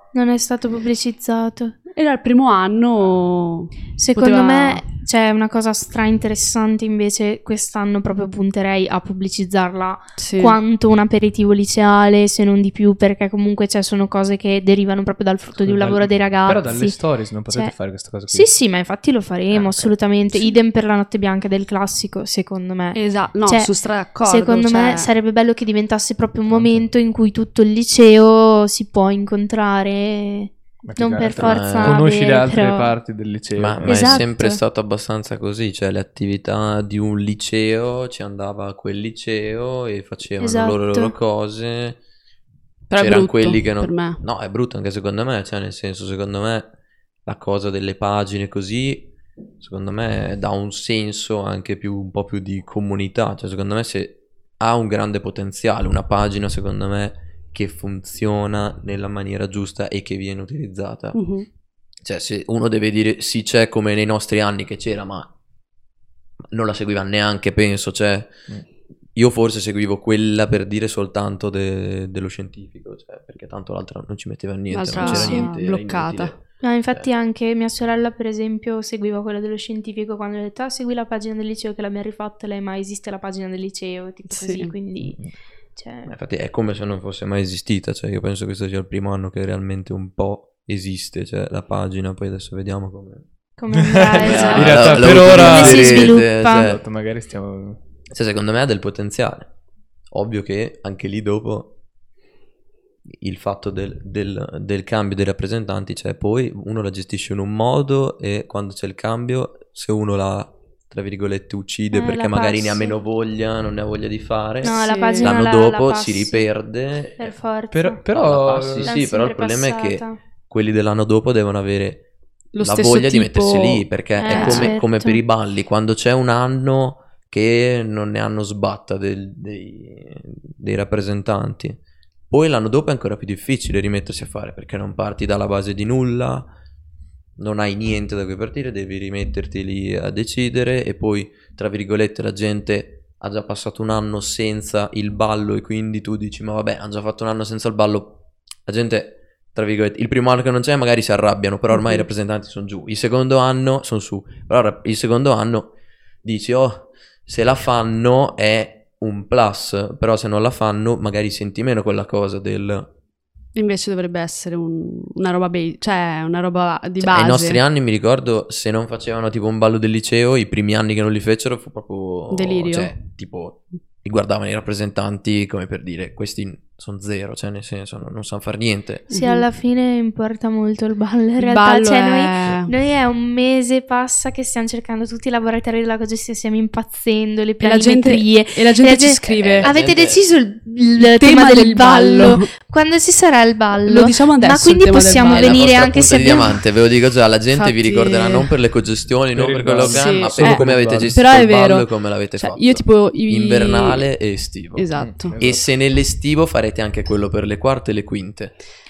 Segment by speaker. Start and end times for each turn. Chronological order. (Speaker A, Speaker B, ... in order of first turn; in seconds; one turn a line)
Speaker A: 0.1-1.8
Speaker B: 1.9-4.8
Speaker A: 4.0-17.8
Speaker B: 10.2-10.6
Speaker C: 15.6-18.5
Speaker A: 18.3-32.9
Speaker B: 22.9-25.1
Speaker C: 26.5-26.9
Speaker C: 30.8-34.2
Speaker D: 31.4-32.0
Speaker D: 33.6-42.0
Speaker A: 33.8-34.6
Speaker A: 40.4-41.1
Speaker B: 42.9-44.2
Speaker D: 43.0-46.7
Speaker D: 47.3-61.2
Speaker B: 61.1-61.5
Speaker D: 62.0-65.3
Speaker D: 66.5-68.5
Speaker D: 69.2-77.1
Speaker B: 74.7-76.3
Speaker A: 75.0-75.6
Speaker A: 76.6-86.1
Speaker B: 84.3-84.8
Speaker D: 86.0-93.2
Speaker A: 93.6-96.7
Speaker C: 93.8-97.8
Speaker D: 94.2-96.8
Speaker D: 98.1-99.5
Speaker D: 100.1-101.7
Speaker D: 103.1-117.3
Speaker A: 111.9-113.0
Speaker A: 114.6-116.5
Speaker B: 114.7-115.4
Speaker A: 117.2-118.0
Speaker C: 117.7-118.9
Speaker D: 118.1-122.1
Speaker A: 118.8-120.2
Speaker B: 122.5-124.8
Speaker D: 122.6-131.8
Speaker A: 124.2-125.2
Speaker D: 132.3-136.5
Speaker D: 137.4-162.9
Speaker B: 151.7-152.1
Speaker B: 163.6-167.6
Speaker D: 167.0-179.1
Speaker B: 172.3-172.9
Speaker B: 179.1-179.4
Speaker A: 179.1-196.6
Speaker B: 181.4-182.7
Speaker B: 187.6-189.7
Speaker D: 189.3-190.2
Speaker B: 191.0-192.5
Speaker B: 193.9-195.6
Speaker D: 195.2-208.6
Speaker B: 197.5-198.5
Speaker C: 199.3-201.2
Speaker B: 199.8-204.1
Speaker B: 204.8-205.4
Speaker C: 205.0-205.7